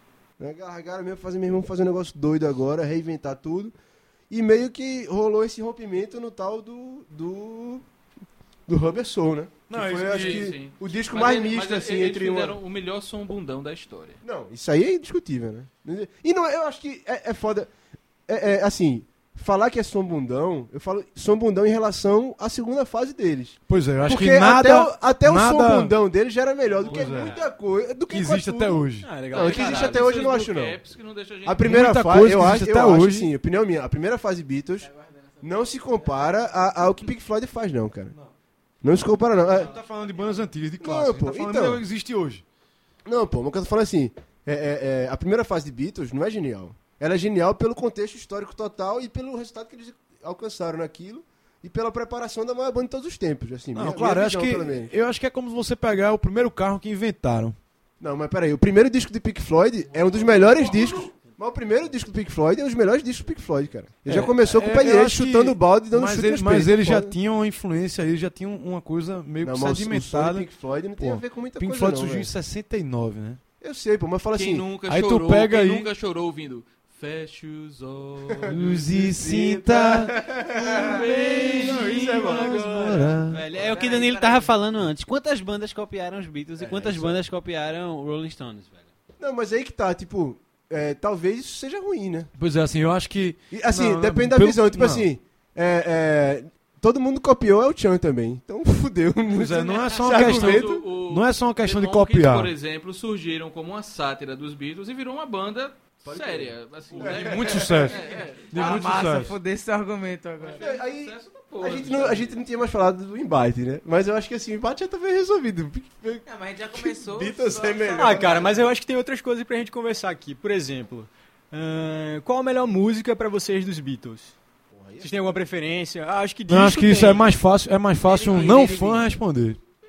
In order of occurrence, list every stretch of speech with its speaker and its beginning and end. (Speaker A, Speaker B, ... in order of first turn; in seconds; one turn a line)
Speaker A: 0.4-3.7
Speaker A: 4.3-7.8
Speaker A: 8.7-12.6
Speaker B: 9.7-10.5
Speaker C: 10.0-14.2
Speaker A: 14.2-17.7
Speaker A: 18.3-30.8
Speaker B: 23.7-25.9
Speaker B: 26.9-27.4
Speaker D: 26.9-27.2
Speaker B: 28.1-29.1
Speaker E: 29.0-30.1
Speaker C: 29.3-31.8
Speaker A: 31.4-34.9
Speaker B: 31.6-33.3
Speaker F: 34.8-36.3
Speaker A: 35.4-38.1
Speaker A: 38.8-39.7
Speaker B: 39.5-42.4
Speaker A: 40.8-41.8
Speaker A: 43.0-54.9
Speaker B: 53.8-57.6
Speaker A: 58.0-67.2
Speaker B: 64.1-70.5
Speaker A: 69.4-72.3
Speaker B: 71.0-73.4
Speaker A: 73.6-74.7
Speaker C: 74.3-78.8
Speaker B: 74.9-75.9
Speaker A: 78.3-83.0
Speaker B: 78.5-80.2
Speaker C: 80.5-83.0
Speaker B: 80.9-83.4
Speaker E: 82.2-83.1
Speaker D: 83.3-88.9
Speaker F: 83.5-84.5
Speaker A: 86.6-87.2
Speaker A: 89.2-92.3
Speaker B: 92.4-95.1
Speaker A: 93.5-100.9
Speaker B: 99.3-102.5
Speaker C: 99.9-109.2
Speaker A: 106.0-108.2
Speaker B: 107.0-108.0
Speaker B: 108.5-109.3
Speaker F: 108.5-110.7
Speaker C: 110.4-112.4
Speaker A: 110.6-116.2
Speaker F: 116.3-118.5
Speaker A: 116.8-118.6
Speaker E: 117.9-124.3
Speaker A: 124.7-125.2
Speaker E: 125.0-127.3
Speaker B: 126.5-129.6
Speaker E: 128.1-129.0
Speaker A: 128.2-128.8